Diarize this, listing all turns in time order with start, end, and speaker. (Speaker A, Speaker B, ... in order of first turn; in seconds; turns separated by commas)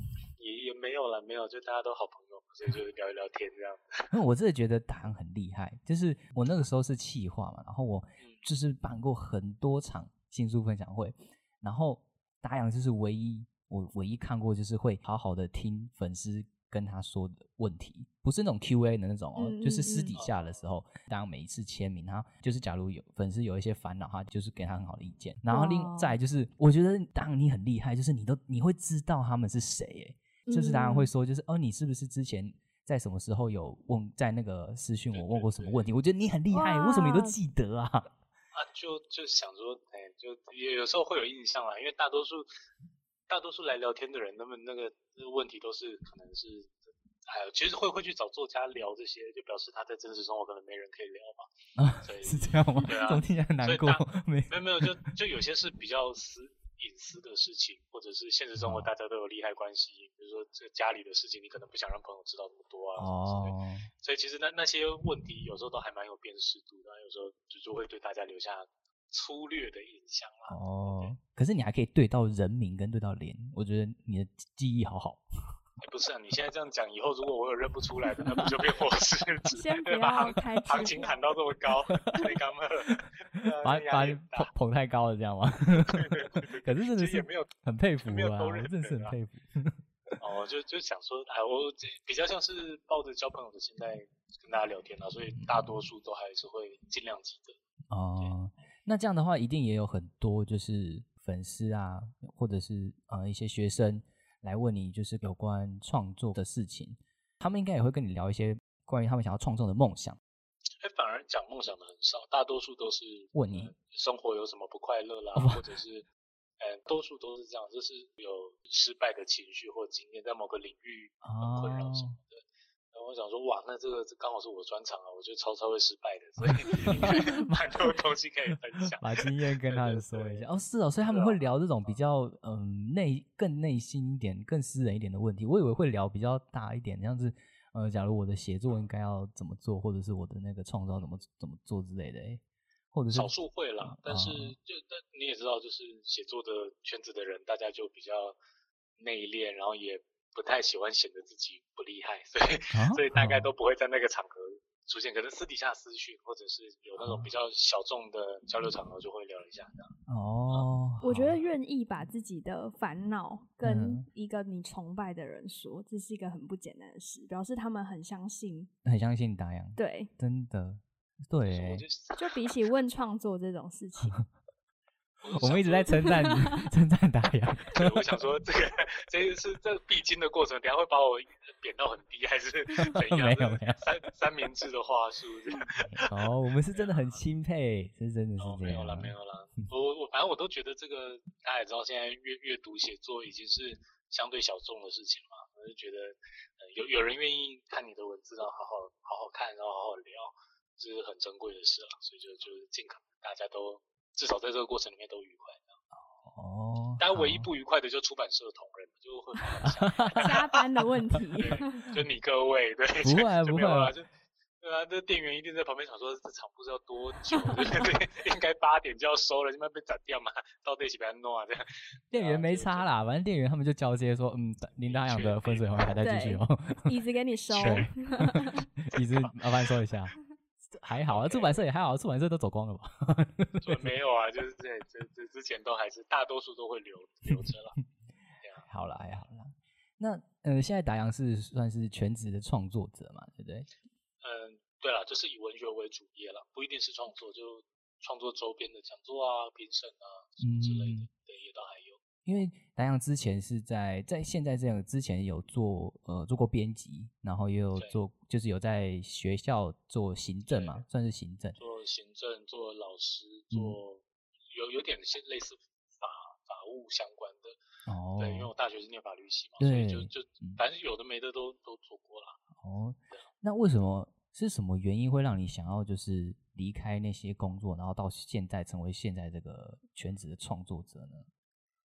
Speaker A: 0.4-4.1, Speaker B: 4.1-38.1, Speaker C: 19.4-20.1, Speaker A: 20.1-20.6, Speaker C: 25.5-26.1, Speaker C: 30.5-31.1, Speaker A: 35.1-35.9, Speaker C: 36.5-37.4, Speaker A: 38.5-42.5, Speaker A: 43.3-46.8, Speaker A: 47.3-51.5, Speaker B: 51.8-55.1, Speaker A: 52.0-71.1, Speaker B: 58.6-58.9, Speaker B: 63.0-63.9, Speaker B: 70.5-75.2, Speaker A: 75.8-84.5, Speaker C: 79.5-81.1, Speaker B: 82.9-89.8, Speaker A: 85.8-87.5, Speaker A: 88.0-89.1, Speaker A: 90.2-97.5, Speaker B: 95.4-95.7, Speaker B: 97.9-110.2, Speaker A: 110.8-116.1, Speaker B: 113.3-113.7, Speaker B: 115.3-115.6, Speaker A: 116.6-130.4, Speaker B: 121.2-122.2, Speaker B: 126.4-127.6, Speaker B: 129.0-142.4, Speaker A: 131.1-131.4, Speaker B: 142.9-144.5, Speaker A: 143.1-148.4, Speaker A: 149.0-159.9, Speaker B: 152.7-153.5, Speaker B: 157.0-157.3, Speaker B: 160.1-161.3, Speaker C: 161.0-168.7, Speaker B: 163.6-164.1, Speaker B: 168.8-171.8, Speaker C: 169.8-170.1, Speaker A: 171.4-172.3, Speaker C: 172.2-174.2, Speaker A: 175.2-176.2, Speaker B: 175.3-178.0, Speaker C: 175.9-176.5, Speaker A: 177.7-187.1, Speaker B: 182.8-183.8, Speaker B: 185.8-189.1, Speaker A: 188.4-205.8, Speaker B: 206.2-207.5, Speaker A: 207.0-210.4, Speaker B: 209.6-210.4, Speaker C: 210.2-211.7, Speaker A: 211.3-214.1, Speaker B: 213.0-213.9, Speaker A: 214.6-222.9, Speaker B: 222.1-226.9, Speaker A: 224.9-225.8, Speaker C: 226.0-228.6, Speaker B: 227.5-230.1, Speaker A: 227.6-227.9, Speaker A: 228.9-229.4, Speaker B: 230.7-233.8, Speaker A: 231.1-231.6, Speaker A: 233.6-237.8, Speaker B: 238.7-243.7, Speaker A: 244.2-252.0, Speaker B: 250.4-251.1, Speaker B: 252.2-261.6, Speaker A: 260.5-260.8, Speaker A: 261.5-267.6, Speaker B: 263.5-263.8, Speaker B: 267.9-268.5, Speaker A: 268.2-272.4, Speaker B: 269.6-270.6, Speaker B: 272.6-281.3